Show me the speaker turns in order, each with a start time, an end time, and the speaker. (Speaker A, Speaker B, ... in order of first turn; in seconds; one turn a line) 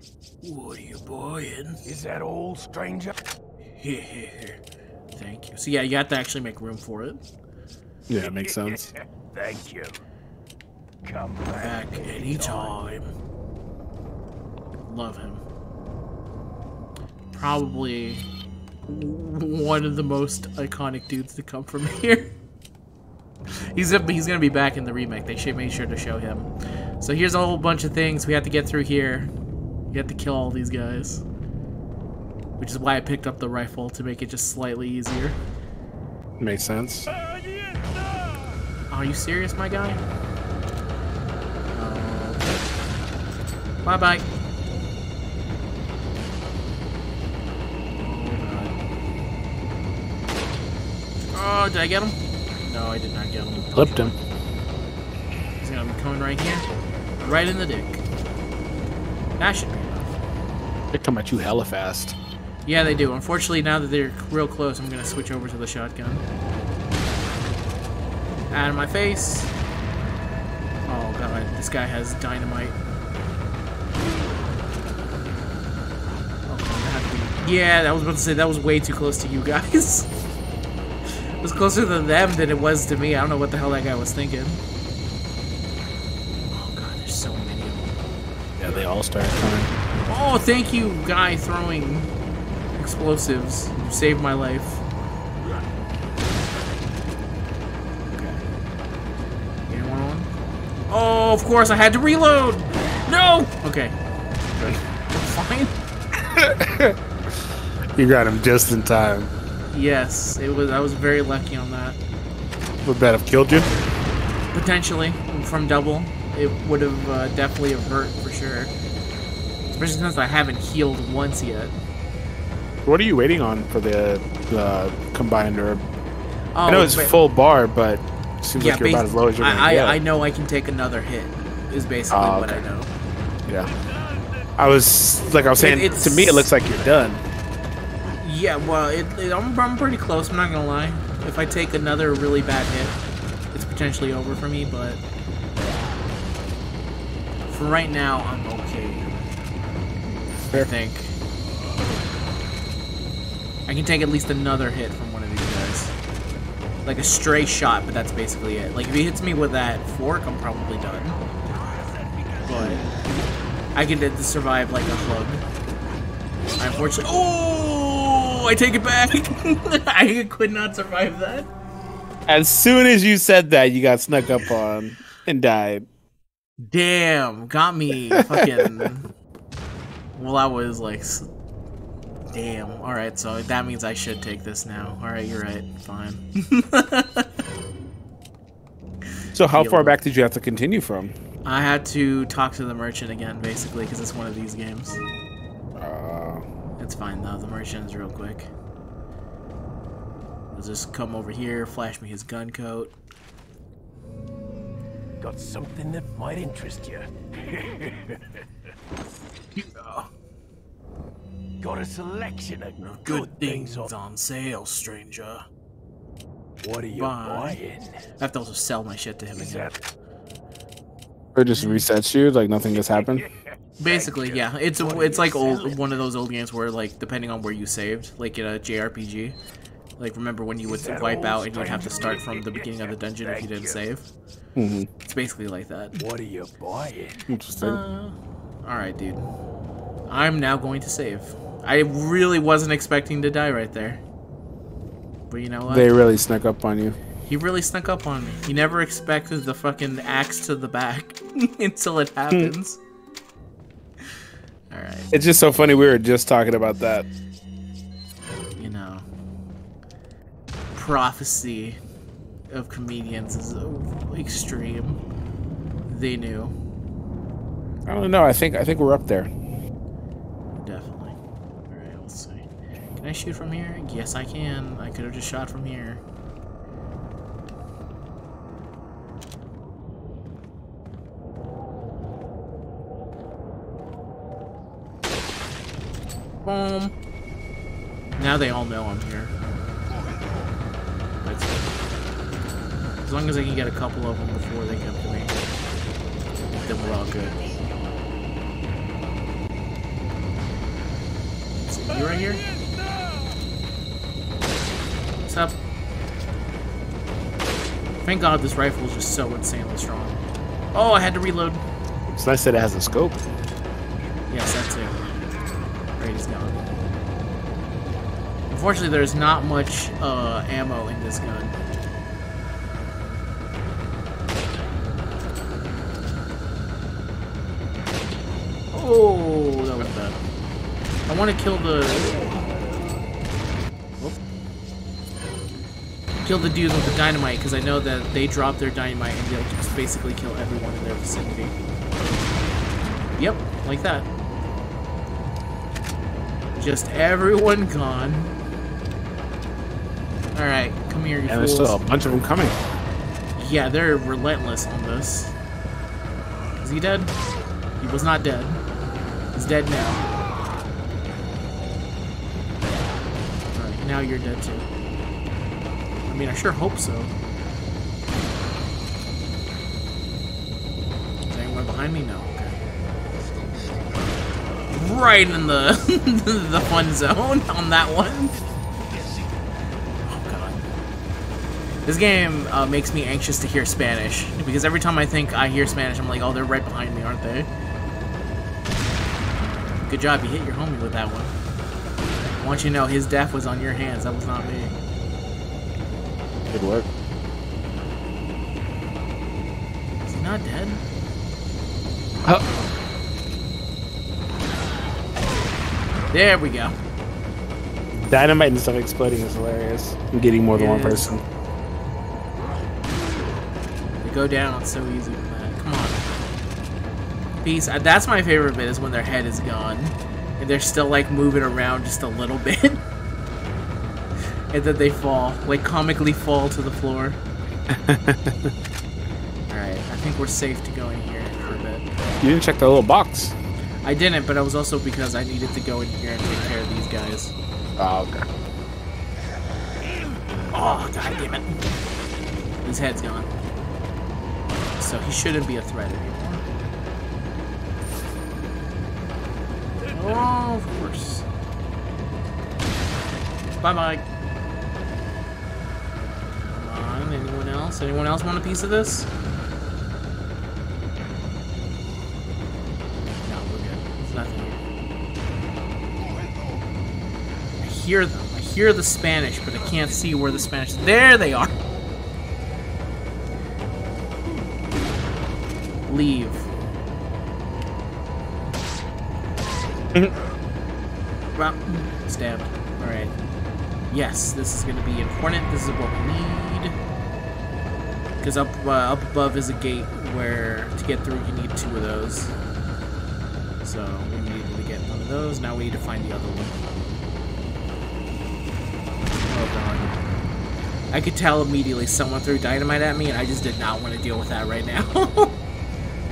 Speaker A: 0.4-1.8
Speaker B: 1.8-3.1
Speaker A: 3.8-4.6
Speaker A: 5.2-7.2
Speaker C: 8.1-8.9
Speaker B: 8.2-10.0
Speaker B: 11.0-12.7
Speaker A: 11.5-13.1
Speaker A: 14.8-15.4
Speaker A: 17.3-18.3
Speaker A: 18.9-22.3
Speaker A: 23.5-26.5
Speaker A: 27.0-29.3
Speaker A: 29.9-31.2
Speaker A: 32.6-35.4
Speaker C: 36.4-37.1
Speaker A: 38.9-40.0
Speaker A: 41.7-42.5
Speaker A: 43.8-44.2
Speaker A: 48.0-48.8
Speaker A: 51.3-54.1
Speaker C: 53.7-54.1
Speaker A: 55.6-56.6
Speaker A: 57.2-58.0
Speaker A: 59.4-60.2
Speaker C: 60.9-62.1
Speaker A: 62.6-66.2
Speaker A: 68.5-69.5
Speaker A: 70.8-72.8
Speaker A: 76.5-80.1
Speaker A: 81.4-84.6
Speaker A: 86.5-87.9
Speaker C: 88.6-89.7
Speaker A: 90.1-92.1
Speaker A: 92.8-94.8
Speaker A: 98.1-98.5
Speaker A: 99.7-100.3
Speaker A: 100.9-104.0
Speaker A: 104.5-105.7
Speaker C: 106.3-107.0
Speaker C: 108.0-109.3
Speaker A: 109.7-112.0
Speaker C: 112.8-113.7
Speaker A: 114.5-118.7
Speaker A: 119.7-121.8
Speaker C: 122.8-125.8
Speaker A: 126.5-127.1
Speaker C: 126.7-130.0
Speaker A: 128.6-132.9
Speaker C: 132.1-132.6
Speaker C: 133.5-133.7
Speaker C: 134.6-137.2
Speaker A: 135.6-136.5
Speaker A: 138.2-143.0
Speaker A: 143.5-145.0
Speaker A: 147.5-149.2
Speaker C: 150.0-150.7
Speaker A: 150.5-151.2
Speaker A: 153.7-155.9
Speaker A: 156.8-161.2
Speaker B: 161.5-162.4
Speaker A: 162.4-162.9
Speaker A: 163.7-165.4
Speaker A: 166.6-171.5
Speaker C: 172.3-175.9
Speaker A: 176.6-179.1
Speaker C: 178.1-178.8
Speaker A: 180.2-181.3
Speaker A: 182.3-187.3
Speaker C: 189.3-191.1
Speaker A: 189.5-190.0
Speaker A: 191.4-195.0
Speaker C: 195.7-196.4
Speaker A: 196.8-198.5
Speaker A: 200.5-202.9
Speaker B: 205.2-208.2
Speaker A: 209.6-210.1
Speaker B: 211.6-213.9
Speaker A: 212.8-215.4
Speaker B: 216.6-218.0
Speaker A: 216.9-217.6
Speaker A: 218.2-219.7
Speaker B: 219.4-219.8
Speaker C: 221.3-223.3
Speaker A: 221.5-221.8
Speaker B: 223.0-223.3
Speaker A: 223.8-229.3
Speaker B: 223.8-225.9
Speaker A: 230.0-234.1
Speaker B: 230.7-233.8
Speaker C: 234.6-234.9
Speaker A: 235.0-236.0
Speaker B: 236.0-237.2
Speaker C: 237.3-237.8
Speaker A: 237.5-239.3
Speaker A: 240.1-244.0
Speaker A: 245.3-245.9
Speaker C: 245.7-247.0
Speaker A: 247.2-252.8
Speaker A: 254.7-255.1
Speaker C: 255.1-257.1
Speaker A: 258.6-259.1
Speaker A: 260.7-261.8
Speaker A: 262.5-265.0
Speaker A: 265.9-266.5
Speaker C: 267.9-269.3
Speaker A: 270.6-271.2
Speaker A: 271.7-272.4
Speaker A: 273.0-276.0
Speaker A: 286.4-286.9
Speaker A: 288.2-289.3
Speaker A: 291.2-291.6
Speaker A: 293.0-295.3
Speaker B: 296.6-297.6
Speaker A: 296.6-297.4
Speaker A: 301.6-302.4
Speaker A: 305.3-305.6
Speaker A: 308.0-310.2
Speaker A: 310.7-311.6
Speaker C: 312.1-313.2
Speaker A: 314.3-315.1
Speaker A: 316.0-316.6
Speaker A: 318.5-321.6
Speaker A: 328.7-330.2
Speaker A: 331.1-332.4
Speaker A: 336.2-341.5
Speaker A: 343.2-344.1
Speaker A: 346.6-348.3
Speaker A: 350.3-351.8
Speaker C: 351.2-352.6
Speaker A: 353.4-355.3
Speaker A: 356.6-357.1
Speaker A: 357.8-358.6
Speaker A: 359.3-360.0
Speaker A: 363.5-364.7
Speaker A: 366.1-367.1
Speaker A: 371.3-372.6
Speaker A: 374.7-378.3
Speaker A: 380.1-380.6
Speaker A: 381.9-387.5
Speaker A: 389.8-391.3
Speaker A: 392.2-394.7
Speaker C: 396.5-396.9
Speaker A: 400.0-400.8
Speaker A: 406.1-406.8
Speaker C: 407.9-411.2
Speaker A: 410.5-411.1
Speaker A: 414.0-416.0
Speaker A: 417.4-422.8
Speaker A: 424.5-427.2
Speaker C: 427.7-428.5
Speaker A: 429.5-431.9
Speaker C: 432.2-433.3
Speaker A: 433.8-437.3
Speaker C: 437.8-438.2
Speaker A: 440.5-441.5
Speaker A: 442.6-443.3
Speaker A: 444.8-446.4
Speaker A: 449.9-451.2
Speaker A: 453.6-454.0
Speaker A: 456.3-459.1
Speaker A: 463.2-464.6
Speaker A: 467.6-471.5
Speaker A: 475.9-476.5
Speaker A: 481.3-483.1
Speaker A: 483.9-486.8
Speaker A: 488.2-492.3
Speaker A: 493.6-496.6
Speaker A: 499.2-500.0
Speaker A: 500.9-505.4